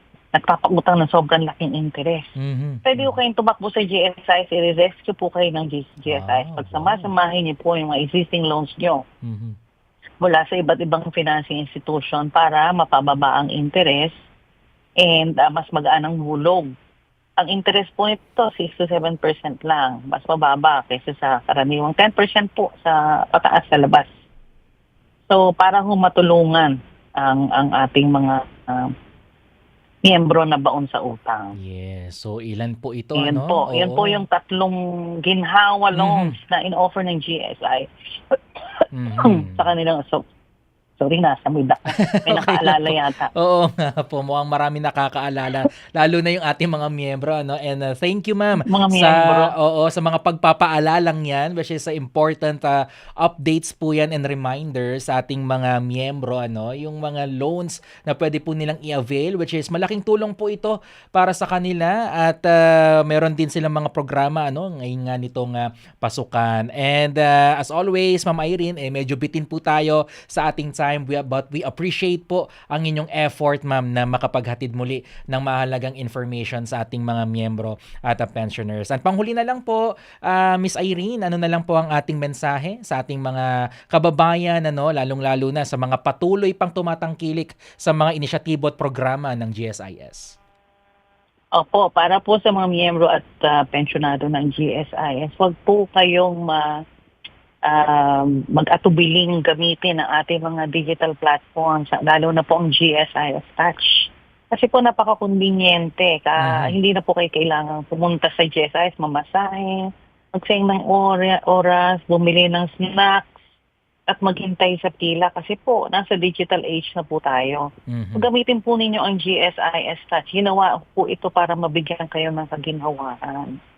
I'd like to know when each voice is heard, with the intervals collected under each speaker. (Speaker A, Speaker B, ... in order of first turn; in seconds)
Speaker A: 0.3-2.3, 2.9-9.0, 10.2-14.1, 15.0-16.7, 17.4-24.1, 25.3-28.9, 30.1-31.6, 33.2-40.2, 41.0-43.3, 48.6-49.5, 91.5-96.8, 97.7-113.3, 114.1-123.6
Speaker B: 2.4-3.2, 6.1-7.1, 9.2-9.6, 31.6-34.2, 36.0-36.4, 38.9-39.7, 41.9-90.4, 106.4-106.8, 117.9-118.3